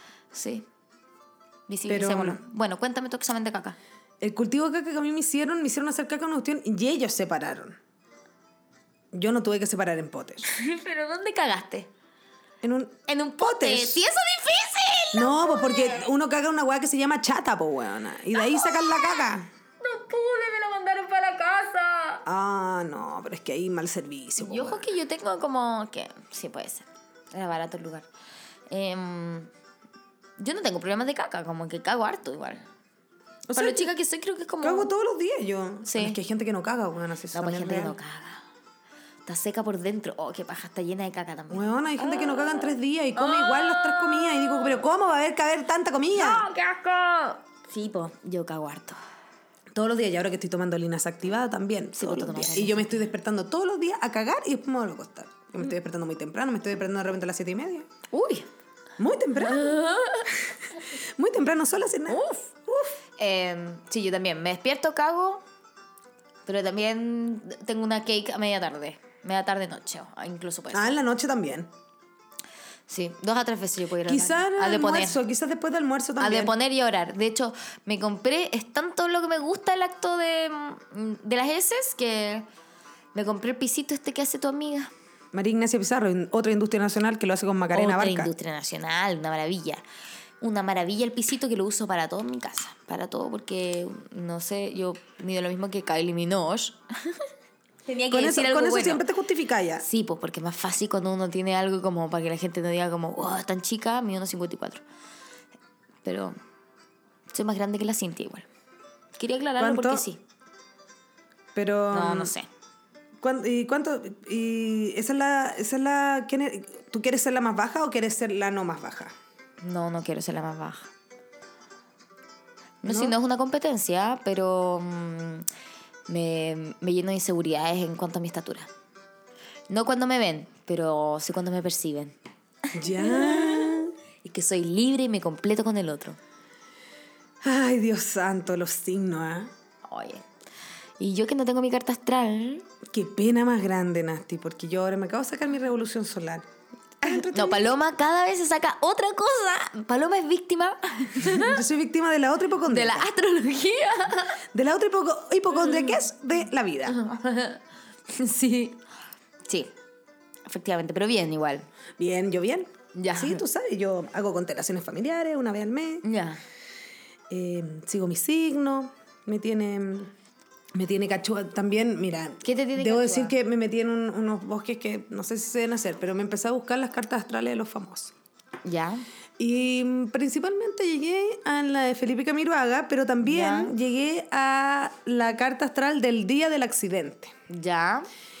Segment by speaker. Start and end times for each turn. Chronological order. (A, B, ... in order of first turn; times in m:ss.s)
0:00.3-0:00.6 A
0:01.7-0:03.8 A
0:01.9-0:02.4 B
0:04.2-0:07.8 B
0:09.1-0:10.4 B
0:10.4-0:11.9 A
0:12.6-0:14.0 B
0:13.1-0:16.1 A
0:15.1-0:19.5 B
0:18.3-0:19.3 A
0:19.8-0:22.2 A
0:22.2-0:24.9 B
0:24.4-0:28.1 A
0:28.7-0:29.5 A
0:30.4-0:32.6 A
0:33.5-0:33.9 B
0:33.5-0:34.9 A
0:34.6-0:38.0 B
0:35.8-0:36.2 A
0:37.3-0:38.4 A
0:39.2-0:44.8 A
0:41.5-0:46.5 B
0:46.1-0:49.0 A
0:49.7-0:57.9 B
0:52.0-0:52.9 A
0:58.1-0:58.5 A
0:59.0-0:59.8 B
0:59.4-1:00.3 A
1:00.3-1:02.9 B
1:02.1-1:05.4 A
1:06.4-1:11.0 A
1:10.7-1:11.7 B
1:12.9-1:15.2 A
1:14.0-1:16.5 B
1:16.2-1:22.4 A
1:23.1-1:24.9 A
1:25.3-1:28.3 B
1:27.7-1:29.8 A
1:30.4-1:37.2 A
1:37.8-1:39.0 A
1:38.1-1:39.8 B
1:39.8-1:44.8 A
1:46.0-1:46.4 A
1:47.3-1:48.5 A
1:49.2-1:50.2 A
1:49.6-1:50.0 B
1:51.5-1:52.3 B
1:51.9-1:52.5 A
1:53.2-1:59.1 B
1:59.6-2:00.9 A
2:02.8-2:05.4 A
2:02.8-2:03.1 B
2:06.1-2:08.7 A
2:09.7-2:12.1 A
2:12.7-2:13.9 B
2:12.7-2:16.2 A
2:17.4-2:19.5 B
2:19.8-2:20.2 A
2:21.0-2:22.6 A
2:22.9-2:26.5 B
2:27.0-2:27.7 B
2:27.0-2:31.6 A
2:31.2-2:33.1 B
2:32.7-2:34.4 A
2:34.5-2:37.0 B
2:35.6-2:36.0 A
2:36.9-2:38.8 A
2:39.5-2:39.7 A
2:40.4-2:41.7 A
2:42.0-2:46.0 B
2:42.9-2:43.4 A
2:46.0-2:46.4 A
2:47.3-2:50.1 B
2:50.7-2:58.1 B
2:52.4-2:53.3 A
2:58.6-2:59.0 A
2:59.4-3:07.3 B
3:03.2-3:03.7 A
3:07.5-3:08.1 A